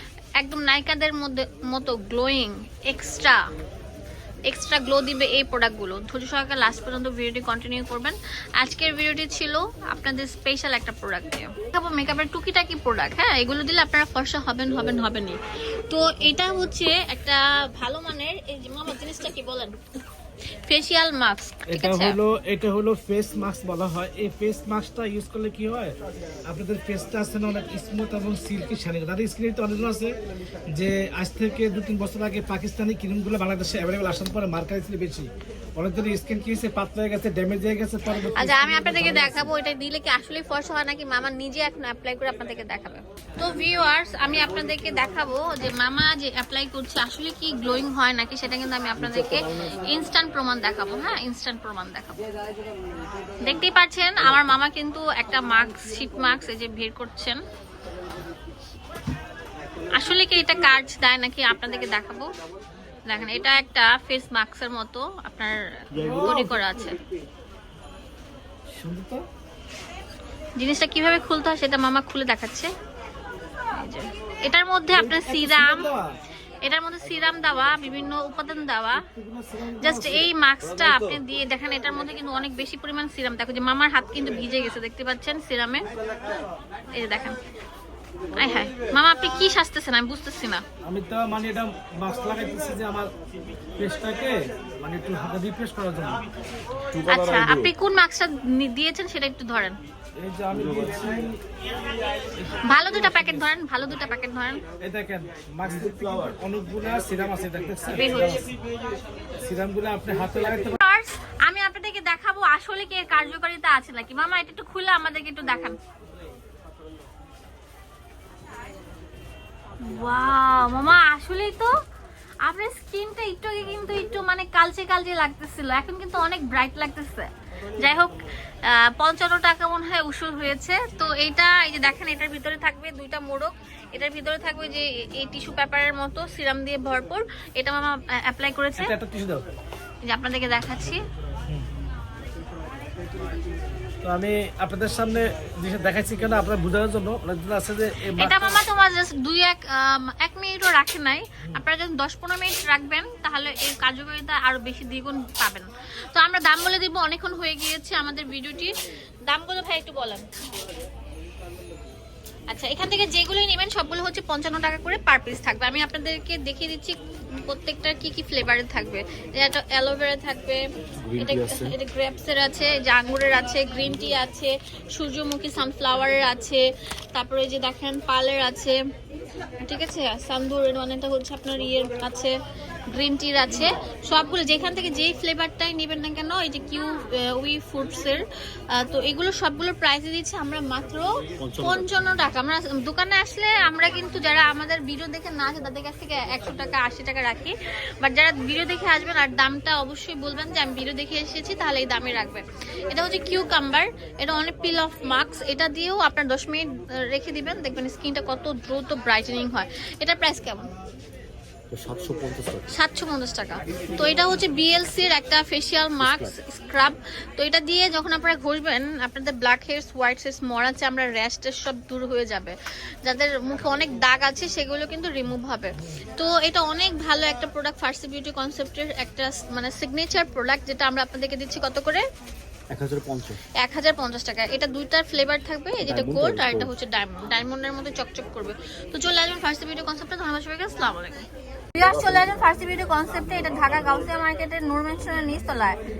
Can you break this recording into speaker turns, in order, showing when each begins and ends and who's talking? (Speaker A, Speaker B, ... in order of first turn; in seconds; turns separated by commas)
Speaker A: 0.4-3.4, Speaker A: 4.5-15.4, Speaker A: 15.9-19.8, Speaker A: 20.6-22.2, Speaker B: 21.7-25.9, Speaker B: 26.5-30.1, Speaker B: 30.7-39.5, Speaker A: 38.4-52.2, Speaker A: 53.4-57.4, Speaker A: 60.0-62.3, Speaker A: 63.1-67.0, Speaker B: 65.9-66.5, Speaker B: 68.7-69.2, Speaker A: 70.6-72.7, Speaker A: 73.7-75.9, Speaker B: 74.9-76.1, Speaker A: 76.6-79.0, Speaker B: 79.0-81.2, Speaker A: 79.8-85.8, Speaker A: 86.9-87.4, Speaker A: 88.3-90.6, Speaker B: 90.8-93.1, Speaker B: 93.8-96.3, Speaker C: 96.9-97.7, Speaker A: 97.0-99.8, Speaker B: 100.2-101.4, Speaker C: 100.5-100.9, Speaker B: 102.4-103.5, Speaker A: 102.7-104.6, Speaker B: 104.8-108.5, Speaker A: 107.9-108.4, Speaker B: 109.4-110.8, Speaker A: 110.8-115.8, Speaker A: 119.8-121.7, Speaker A: 122.4-128.1, Speaker A: 128.6-138.9, Speaker B: 138.8-139.4, Speaker A: 140.0-141.0, Speaker B: 144.0-148.6, Speaker A: 148.2-158.7, Speaker A: 159.3-160.2, Speaker A: 162.5-170.6, Speaker C: 171.0-171.7, Speaker A: 171.2-178.8, Speaker A: 179.6-182.3, Speaker A: 182.9-188.2, Speaker A: 188.7-210.7, Speaker C: 191.4-191.9, Speaker C: 211.7-212.7, Speaker A: 212.7-232.0, Speaker C: 216.0-216.3, Speaker C: 232.7-233.4, Speaker A: 233.6-245.8, Speaker C: 235.8-236.7, Speaker C: 241.8-242.2